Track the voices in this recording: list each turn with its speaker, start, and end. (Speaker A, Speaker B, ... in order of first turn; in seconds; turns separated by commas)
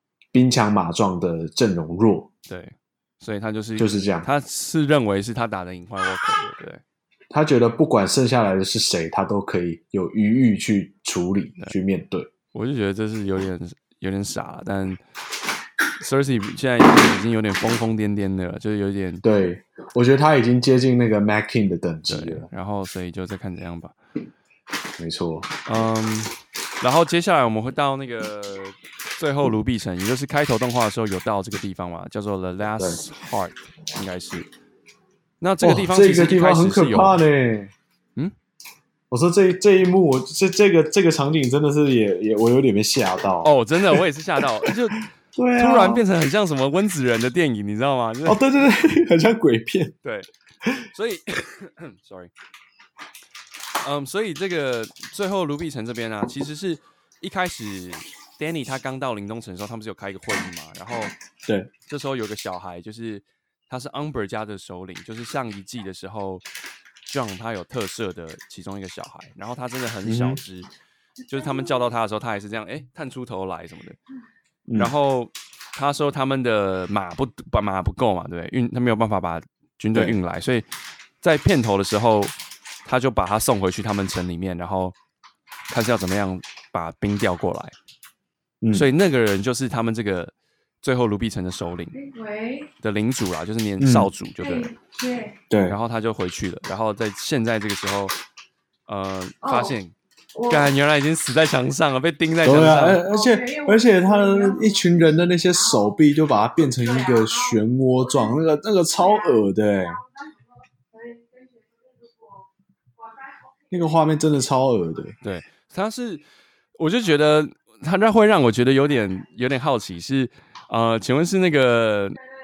Speaker A: 0.3-2.3, Speaker B: 2.5-6.8, Speaker A: 3.8-4.3, Speaker A: 7.3-12.3, Speaker B: 12.5-15.0, Speaker B: 16.0-19.2, Speaker A: 19.2-22.5, Speaker B: 22.1-24.0, Speaker A: 25.0-25.5, Speaker B: 25.7-34.5, Speaker A: 32.8-33.0, Speaker B: 35.4-37.2, Speaker A: 35.6-37.7, Speaker A: 39.1-44.0, Speaker B: 43.4-45.0, Speaker A: 45.4-46.0, Speaker B: 45.6-48.4, Speaker A: 48.3-50.0, Speaker B: 50.0-50.3, Speaker B: 50.9-52.3, Speaker B: 53.8-61.1, Speaker B: 61.9-66.5, Speaker B: 67.1-70.7, Speaker A: 70.0-70.4, Speaker B: 71.3-74.0, Speaker A: 74.7-74.9, Speaker B: 74.8-80.7, Speaker B: 81.2-82.3, Speaker B: 82.8-85.0, Speaker B: 85.7-87.8, Speaker A: 88.6-88.9, Speaker B: 88.7-92.0, Speaker C: 91.9-92.7, Speaker B: 92.8-94.7, Speaker A: 93.8-94.1, Speaker C: 94.4-95.4, Speaker A: 95.5-95.8, Speaker B: 95.7-98.2, Speaker B: 98.9-100.0, Speaker C: 99.4-99.8, Speaker C: 100.3-100.7, Speaker B: 100.5-103.1, Speaker A: 102.4-110.0, Speaker C: 103.1-105.0, Speaker C: 110.9-112.1, Speaker A: 113.7-115.2, Speaker B: 115.2-116.2, Speaker B: 116.8-122.2